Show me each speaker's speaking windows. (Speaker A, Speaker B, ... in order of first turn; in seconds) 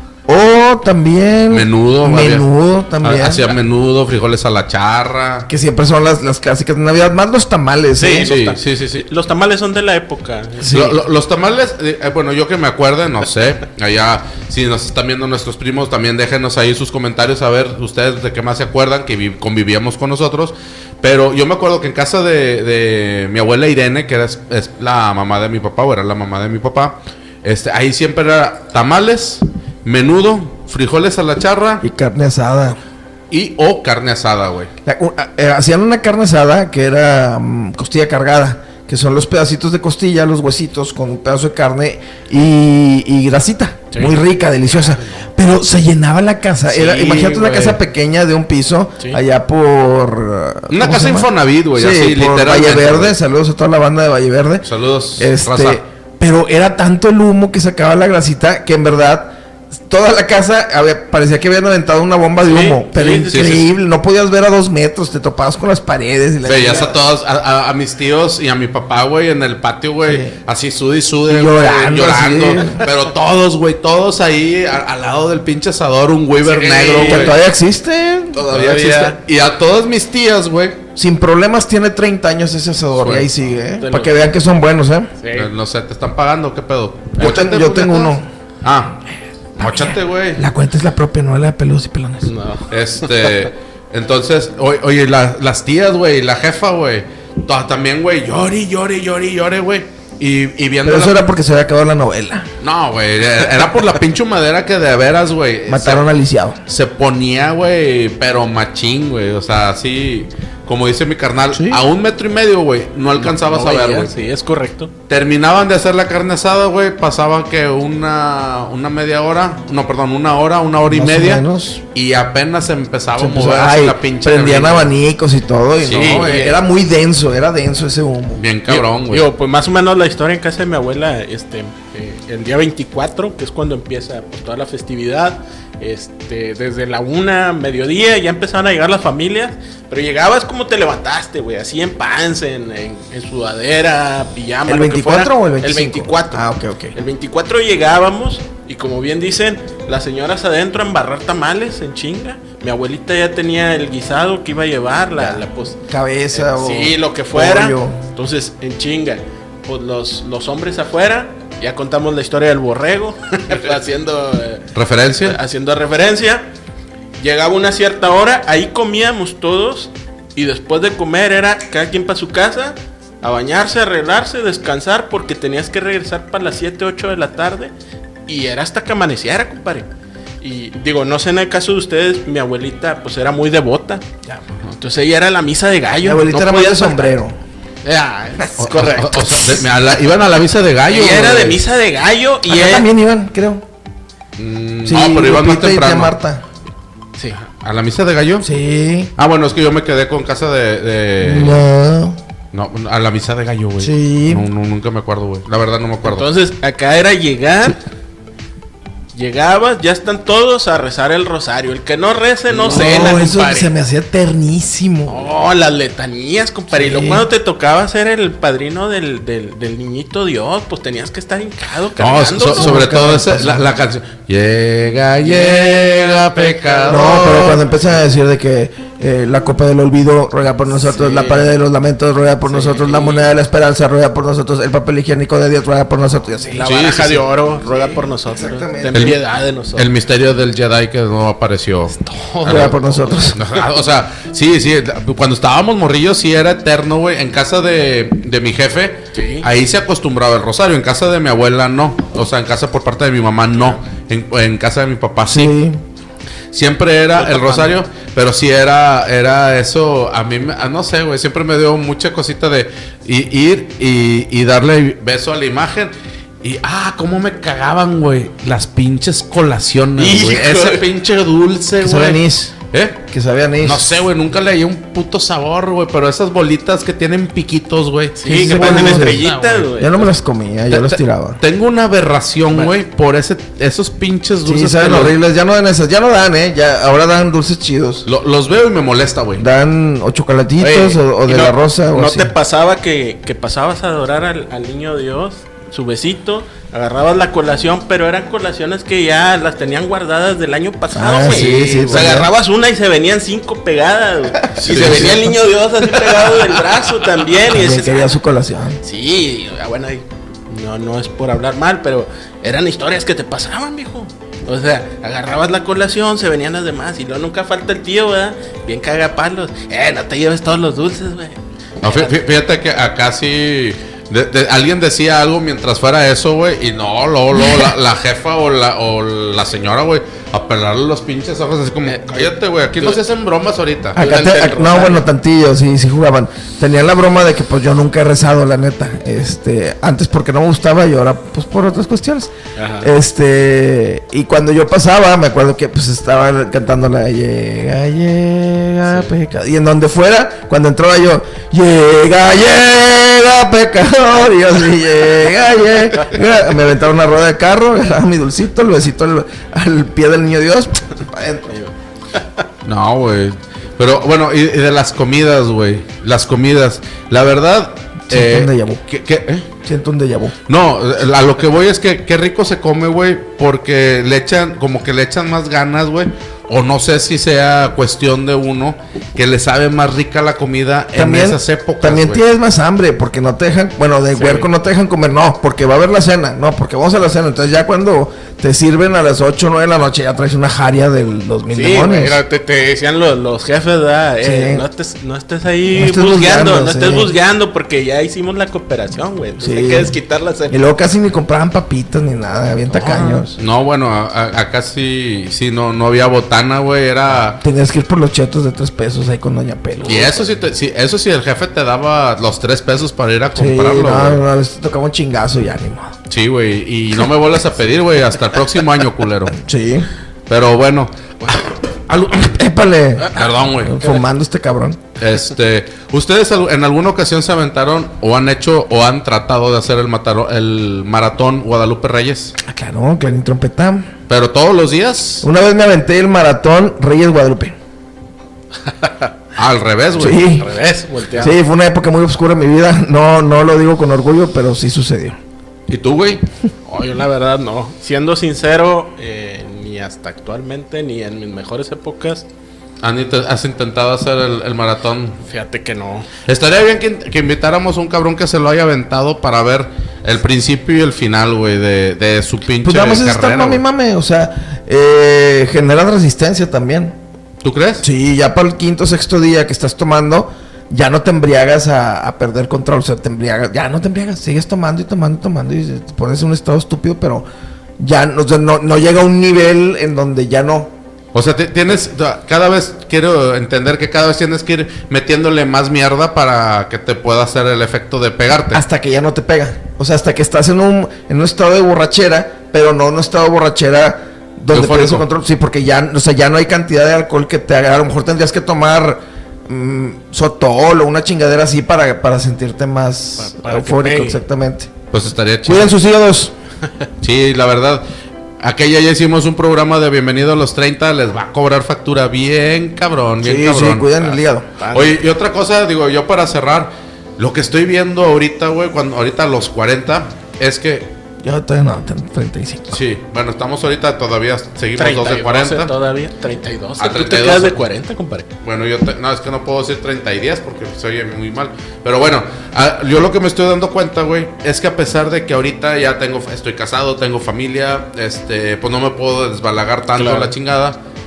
Speaker A: 0.3-3.5, 5.5-8.3, 10.7-11.0, 31.8-32.8, 34.9-54.7, 55.2-67.0, 70.1-70.3, 71.3-72.8, 77.0-79.1, 81.0-85.1, 87.2-88.3, 89.6-92.3, 100.8-102.5, 105.7-106.6, 111.5-111.8, 120.9-121.8, 123.2-128.4, 144.7-146.9, 155.2-158.0, 186.0-187.3, 192.5-193.6, 194.8-196.4, 198.4-199.1, 201.2-202.2, 203.8-204.5, 212.6-215.3, 216.7-217.3, 222.6-223.7, 226.9-236.8, 237.6-239.1, 242.4-243.4, 255.3-255.8, 271.8-272.5, 273.1-274.0, 278.3-281.4, 284.4-288.1, 289.4-292.3, 300.9-302.3, 304.6-305.3, 307.5-308.8, 333.9-361.6, 368.1-368.8, 369.6-370.3, 380.9-392.2, 394.2-394.6, 395.7-397.1, 399.4-399.9, 400.5-403.4, 407.4-410.2, 413.4-416.0, 419.4-419.9, 422.2-424.8, 432.4-433.9, 435.2-437.6, 440.0-440.5, 441.2-445.2, 462.6-467.0, 467.8-477.3, 477.8-480.7, 488.5-504.7, 505.4-506.4, 513.2-514.5, 521.2-522.8
Speaker B: 1.5-2.5, 3.0-5.5, 8.2-9.0, 10.7-31.8, 33.3-34.7, 46.7-47.8, 50.7-53.2, 54.6-55.8, 63.3-63.7, 66.5-77.4, 78.4-80.8, 83.0-83.3, 85.3-89.0, 89.6-90.4, 92.7-101.3, 102.6-106.0, 106.7-114.1, 115.1-124.9, 125.8-126.4, 128.4-129.3, 164.8-165.4, 188.6-191.6, 194.4-196.2, 197.4-198.5, 199.2-201.6, 202.5-206.3, 222.0-227.7, 236.6-237.2, 238.9-239.2, 239.8-255.6, 256.5-273.0, 273.6-279.7, 280.7-285.2, 288.1-289.5, 301.2-302.1, 304.6-305.2, 321.8-334.0, 362.6-369.5, 370.5-382.2, 403.4-407.4, 409.9-414.2, 416.1-419.4, 420.3-422.4, 423.1-423.9, 425.0-432.4, 434.1-435.3, 439.4-440.3, 445.7-446.2, 452.8-455.2, 456.3-463.6, 467.4-467.9, 481.1-488.6, 494.5-495.1, 504.9-505.8, 507.0-507.8, 508.4-514.2, 514.7-520.9, 522.7-525.8, 526.8-527.6, 528.4-540.8
Speaker C: 8.0-11.0, 43.9-44.2, 44.7-45.2, 47.4-47.7, 62.4-63.6, 76.4-77.4, 78.5-79.2, 83.8-84.3, 85.2-85.5, 92.2-93.5, 113.2-114.9, 125.8-126.6, 128.7-164.7, 165.2-166.5, 167.2-177.7, 178.3-179.9, 180.4-187.2, 187.8-189.6, 190.9-192.9, 206.0-207.8, 209.1-213.7, 215.1-222.9, 225.2-227.5, 230.8-231.5, 232.5-233.2, 236.5-239.9, 241.9-243.4, 249.1-249.5, 257.2-257.8, 270.0-270.8, 278.2-280.1, 290.6-308.1, 308.8-322.1, 331.9-333.0, 334.0-335.1, 342.6-342.9, 348.9-349.1, 361.5-362.4, 384.1-384.5, 391.5-400.6, 402.7-403.2, 409.8-410.2, 438.8-439.1, 440.4-441.4, 446.7-452.3, 455.2-456.1, 503.2-504.2, 514.6-515.0, 524.8-528.3, 540.0-540.3